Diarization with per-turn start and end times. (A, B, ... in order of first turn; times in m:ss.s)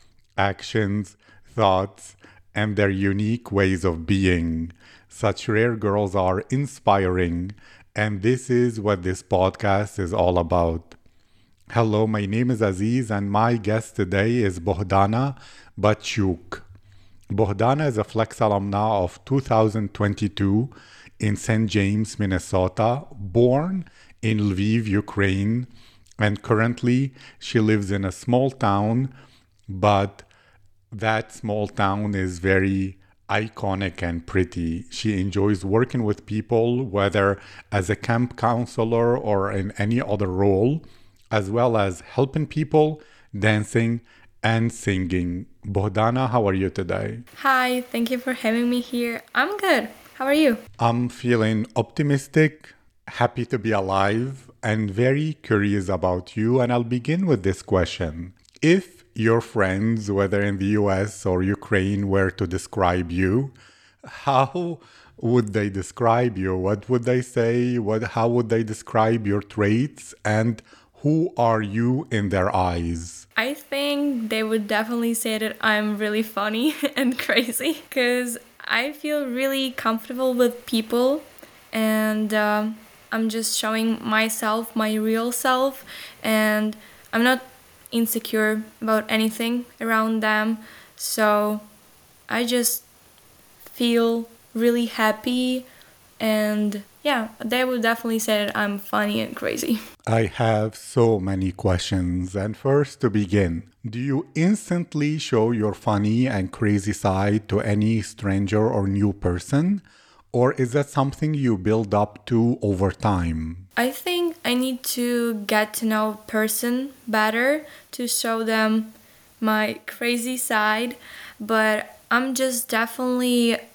0:00.4-0:11.0 A
0:11.7-0:16.6 A
0:17.3-0:29.1 A
0:29.7-0:30.3 A
0:30.9-0:47.2 A
0:47.4-0:50.6 B
0:50.8-1:03.5 A
1:04.1-1:13.2 A
1:13.4-1:31.6 B
1:32.3-1:32.8 B
1:33.7-1:35.7 B
1:36.2-1:39.8 B
1:40.1-1:53.6 A
1:53.8-2:03.6 B